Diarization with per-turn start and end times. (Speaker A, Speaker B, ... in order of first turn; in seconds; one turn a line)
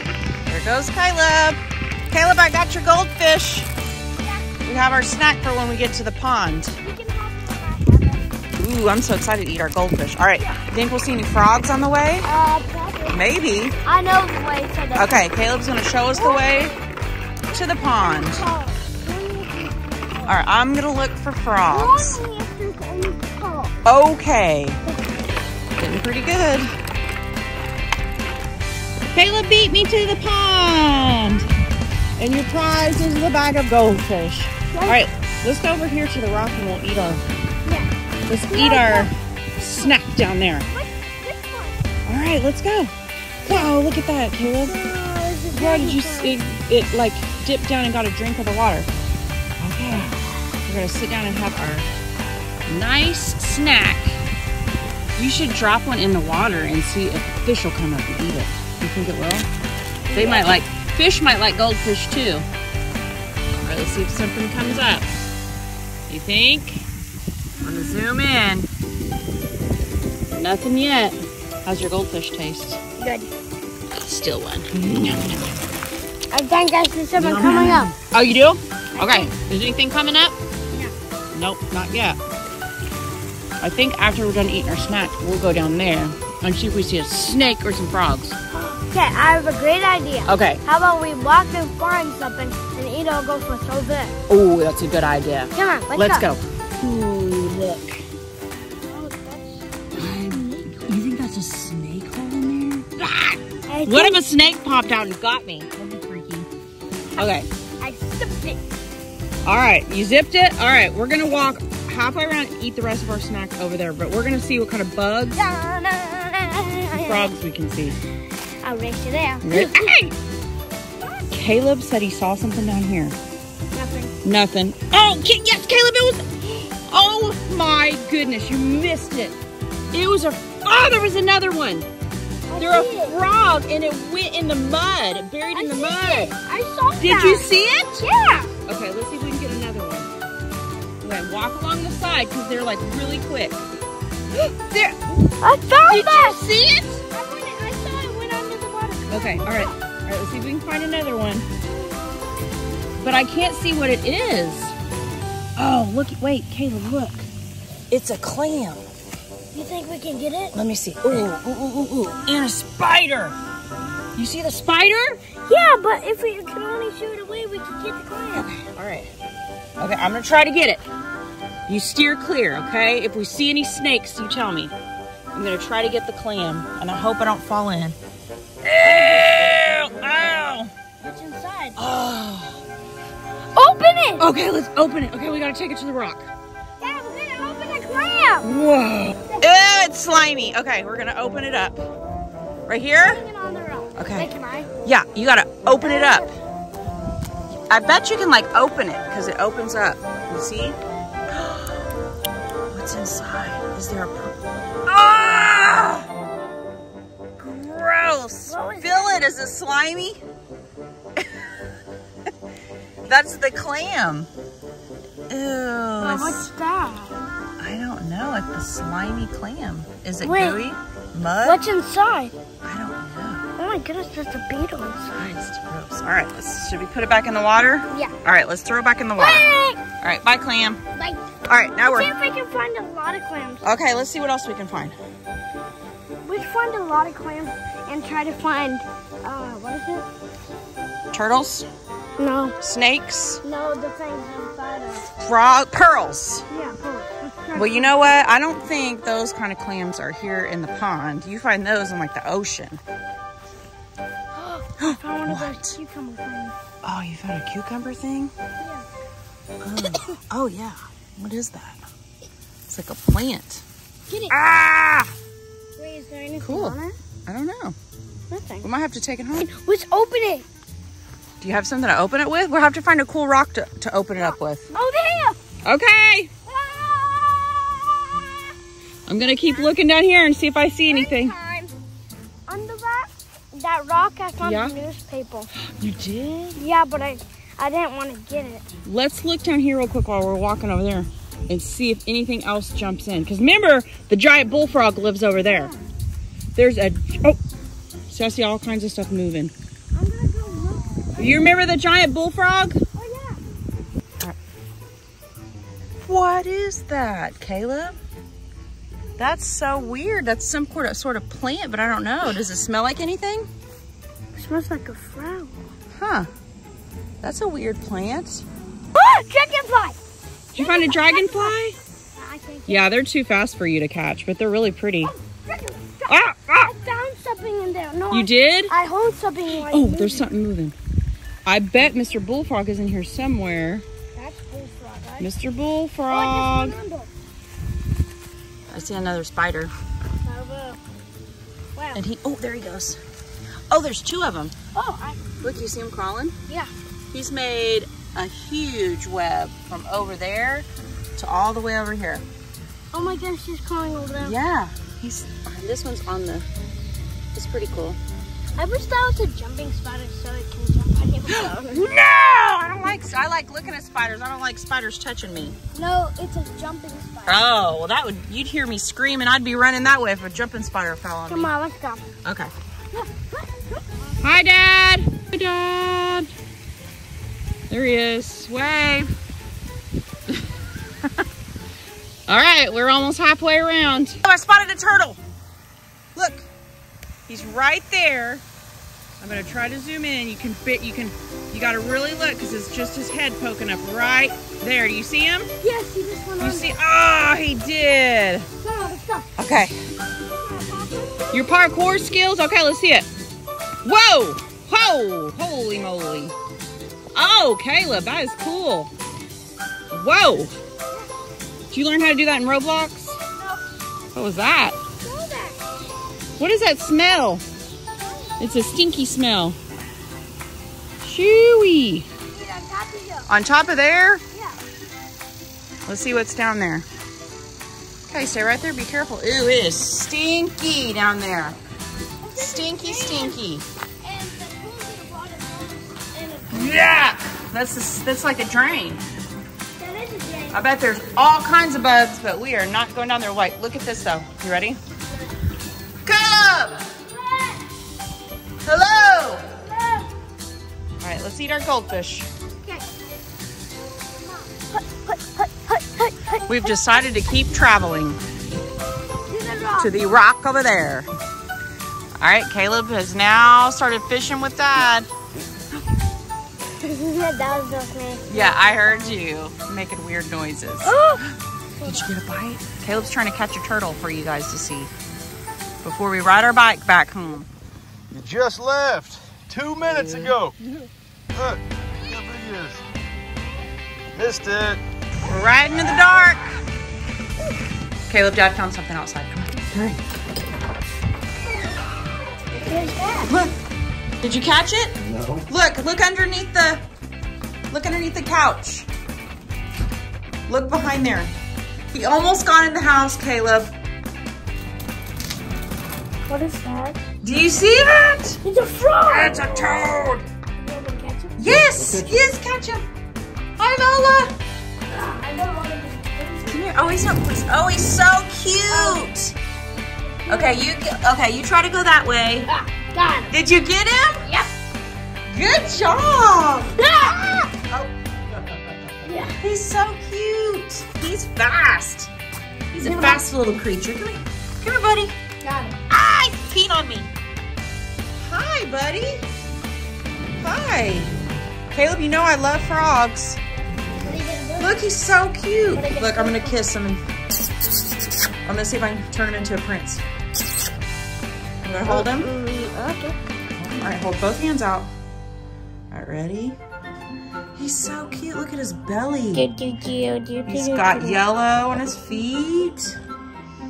Speaker A: 0.5-3.7
Speaker B: 4.2-4.7
Speaker A: 4.6-6.8
Speaker B: 6.8-8.3
Speaker A: 8.6-12.3
Speaker B: 12.2-13.2
Speaker A: 13.1-13.7
Speaker B: 13.8-15.2
Speaker A: 14.9-16.7
Speaker B: 16.1-16.8
Speaker A: 17.5-18.4
Speaker B: 17.5-20.3
Speaker A: 20.2-22.2
Speaker B: 21.7-23.8
Speaker A: 23.8-24.8
Speaker B: 24.9-25.2
Speaker A: 25.8-26.7
Speaker A: 29.1-31.5
Speaker A: 32.2-37.2
Speaker B: 34.7-35.0
Speaker B: 37.6-37.9
Speaker A: 38.3-40.6
Speaker B: 38.5-40.0
Speaker B: 40.7-41.8
Speaker A: 42.1-44.7
Speaker B: 43.5-43.8
Speaker B: 44.7-46.5
Speaker A: 45.5-48.9
Speaker A: 49.6-51.9
Speaker A: 52.7-54.2
Speaker A: 55.1-59.5
Speaker B: 60.1-60.6
Speaker A: 60.1-62.4
Speaker A: 63.6-65.1
Speaker A: 66.1-66.8
Speaker B: 67.5-68.0
Speaker A: 67.6-68.7
Speaker A: 70.3-72.8
Speaker B: 73.0-73.3
Speaker A: 73.9-75.5
Speaker B: 76.3-77.9
Speaker A: 77.2-80.3
Speaker B: 79.0-79.3
Speaker A: 81.3-82.2
Speaker A: 83.6-88.4
Speaker B: 88.5-94.1
Speaker A: 90.2-90.6
Speaker A: 94.3-98.0
Speaker B: 95.5-96.3
Speaker B: 98.9-100.9
Speaker A: 100.0-106.5
Speaker B: 103.7-104.2
Speaker B: 107.1-108.6
Speaker A: 107.2-107.5
Speaker A: 109.4-115.4
Speaker B: 115.3-117.3
Speaker A: 116.9-118.0
Speaker B: 118.6-119.9
Speaker A: 119.4-120.1
Speaker A: 121.3-123.1
Speaker B: 123.7-124.1
Speaker A: 124.2-129.4
Speaker A: 129.9-131.9
Speaker B: 132.5-133.2
Speaker A: 132.6-136.3
Speaker B: 135.5-137.5
Speaker A: 137.0-138.1
Speaker B: 138.0-138.5
Speaker A: 138.7-140.1
Speaker A: 141.0-143.6
Speaker A: 144.3-145.0
Speaker B: 145.4-146.4
Speaker A: 145.9-147.0
Speaker B: 147.1-149.8
Speaker A: 149.1-151.5
Speaker B: 151.7-152.0
Speaker A: 153.0-154.7
Speaker A: 155.6-157.3
Speaker A: 157.9-158.8
Speaker B: 159.5-160.5
Speaker A: 160.5-163.3
Speaker A: 164.1-165.2
Speaker B: 165.4-168.6
Speaker A: 168.5-169.1
Speaker A: 169.8-170.8
Speaker A: 171.7-174.7
Speaker A: 175.3-178.0
Speaker A: 178.6-180.7
Speaker B: 178.8-179.6
Speaker B: 181.0-181.8
Speaker A: 181.8-182.6
Speaker B: 183.5-184.2
Speaker A: 184.2-186.3
Speaker B: 186.8-188.5
Speaker A: 188.4-191.8
Speaker A: 192.7-193.2
Speaker B: 193.0-194.7
Speaker A: 193.9-194.3
Speaker A: 194.8-196.3
Speaker B: 195.8-196.3
Speaker A: 197.7-200.8
Speaker A: 201.3-201.7
Speaker A: 202.7-206.1
Speaker A: 207.4-210.2
Speaker B: 208.5-209.2
Speaker A: 211.2-211.5
Speaker A: 213.1-214.3
Speaker A: 215.3-216.5
Speaker B: 216.0-217.1
Speaker A: 217.6-221.6
Speaker B: 220.2-220.6
Speaker B: 221.4-222.3
Speaker A: 222.6-223.4
Speaker B: 223.6-225.1
Speaker A: 225.1-229.4
Speaker B: 229.2-229.8
Speaker A: 230.0-230.8
Speaker B: 230.9-231.2
Speaker A: 231.4-232.1
Speaker B: 231.7-233.6
Speaker A: 233.6-234.9
Speaker B: 236.2-240.1
Speaker A: 241.1-241.7
Speaker B: 242.2-242.6
Speaker A: 242.6-243.4
Speaker B: 243.4-245.1
Speaker A: 245.2-246.4
Speaker B: 246.5-248.2
Speaker A: 247.5-252.8
Speaker B: 254.3-256.5
Speaker A: 254.8-255.8
Speaker A: 256.8-258.3
Speaker B: 258.6-258.8
Speaker A: 259.6-261.8
Speaker B: 259.8-260.2
Speaker A: 262.7-263.6
Speaker A: 264.3-265.1
Speaker B: 265.8-266.9
Speaker A: 266.4-266.7
Speaker A: 267.3-267.7
Speaker B: 268.3-268.7
Speaker A: 268.6-269.5
Speaker B: 269.4-270.4
Speaker A: 271.4-274.6
Speaker B: 274.1-275.4
Speaker A: 275.6-276.3
Speaker B: 276.4-278.5
Speaker A: 279.1-281.3
Speaker B: 280.8-281.7
Speaker B: 282.5-285.5
Speaker A: 284.4-284.8
Speaker A: 285.6-286.6
Speaker B: 286.6-288.6
Speaker A: 288.9-295.7
Speaker B: 295.4-295.8
Speaker A: 296.5-297.4
Speaker A: 298.1-299.5
Speaker B: 299.9-301.5
Speaker A: 301.2-302.8
Speaker B: 302.9-303.4
Speaker A: 306.1-307.9
Speaker A: 309.2-313.5
Speaker B: 314.4-315.6
Speaker A: 315.9-316.3
Speaker A: 317.2-318.4
Speaker B: 318.9-320.0
Speaker A: 320.5-321.8
Speaker B: 320.6-321.6
Speaker B: 322.1-322.9
Speaker A: 322.7-325.1
Speaker B: 325.0-330.3
Speaker A: 326.1-326.7
Speaker A: 328.1-328.7
Speaker A: 329.5-330.7
Speaker A: 331.4-333.8
Speaker B: 334.1-335.3
Speaker A: 335.2-336.8
Speaker B: 336.1-337.1
Speaker A: 338.7-339.7
Speaker B: 340.2-340.8
Speaker B: 341.8-342.0
Speaker A: 341.9-343.0
Speaker A: 343.7-344.5
Speaker B: 344.7-345.2
Speaker A: 345.4-346.4
Speaker A: 347.1-352.2
Speaker B: 352.9-354.4
Speaker A: 354.2-356.4
Speaker A: 357.3-358.0
Speaker B: 358.6-362.0
Speaker A: 361.3-365.6
Speaker B: 365.7-367.5
Speaker A: 367.3-371.5
Speaker B: 371.3-372.1
Speaker A: 372.2-372.5
Speaker B: 372.9-373.7
Speaker A: 374.2-376.3
Speaker A: 377.7-379.1
Speaker A: 382.3-385.2
Speaker A: 386.1-386.4
Speaker A: 387.3-388.4
Speaker A: 389.2-395.5
Speaker B: 395.6-396.8
Speaker A: 396.4-398.5
Speaker B: 398.6-399.3
Speaker A: 399.4-399.8
Speaker B: 400.3-401.8
Speaker A: 401.3-403.1
Speaker A: 403.8-406.3
Speaker A: 407.1-408.9
Speaker A: 409.9-410.5
Speaker A: 411.7-413.2
Speaker A: 414.1-414.8
Speaker B: 415.0-415.6
Speaker A: 416.4-417.4
Speaker B: 418.0-418.4
Speaker A: 418.4-419.6
Speaker A: 421.0-422.1
Speaker B: 422.3-423.3
Speaker A: 423.3-424.2
Speaker B: 424.3-424.6
Speaker A: 425.9-426.9
Speaker A: 428.1-431.6
Speaker B: 432.2-433.4
Speaker A: 432.3-433.6
Speaker B: 434.0-436.9
Speaker A: 436.5-439.0
Speaker B: 439.8-440.6
Speaker A: 440.5-444.8
Speaker A: 446.0-446.9
Speaker B: 447.0-447.6
Speaker A: 448.6-449.4
Speaker B: 449.5-450.1
Speaker A: 451.0-452.3
Speaker B: 454.2-456.9
Speaker A: 456.5-458.2
Speaker B: 459.3-460.0
Speaker A: 459.8-461.1
Speaker A: 462.2-465.1
Speaker B: 466.8-468.5
Speaker A: 468.3-471.0
Speaker B: 470.8-471.2
Speaker B: 471.8-472.1
Speaker A: 471.8-474.9
Speaker A: 475.8-477.5
Speaker C: 478.1-480.6
Speaker C: 481.3-482.8
Speaker C: 484.1-484.8
Speaker A: 485.2-486.4
Speaker A: 488.1-490.0
Speaker B: 492.5-493.3
Speaker A: 493.2-493.5
Speaker A: 494.2-496.8
Speaker A: 497.7-498.9
Speaker A: 500.5-501.3
Speaker A: 501.9-503.7
Speaker B: 506.3-507.0
Speaker A: 507.2-508.4
Speaker B: 508.4-509.5
Speaker A: 509.1-510.2
Speaker B: 510.6-511.3
Speaker A: 511.4-512.8
Speaker A: 513.6-514.3
Speaker B: 514.9-516.5
Speaker A: 516.5-519.3
Speaker B: 518.7-519.1
Speaker B: 520.2-520.6
Speaker A: 520.3-522.5
Speaker B: 522.5-523.3
Speaker A: 523.3-524.2
Speaker B: 524.2-524.5
Speaker A: 525.3-526.7
Speaker B: 526.8-527.5
Speaker A: 527.7-527.9
Speaker B: 529.0-529.4
Speaker A: 529.4-532.1
Speaker A: 532.7-535.1
Speaker B: 532.8-533.2
Speaker B: 535.4-535.8
Speaker A: 535.9-537.1
Speaker A: 538.2-539.2
Speaker A: 540.4-541.1
Speaker A: 541.7-543.4
Speaker B: 543.9-544.8
Speaker A: 544.6-547.0
Speaker B: 545.7-546.6
Speaker A: 548.4-550.0
Speaker A: 551.6-552.3
Speaker B: 551.9-553.2
Speaker A: 553.6-554.9
Speaker A: 555.9-556.6
Speaker A: 557.5-559.5
Speaker B: 559.3-561.2
Speaker A: 560.5-563.0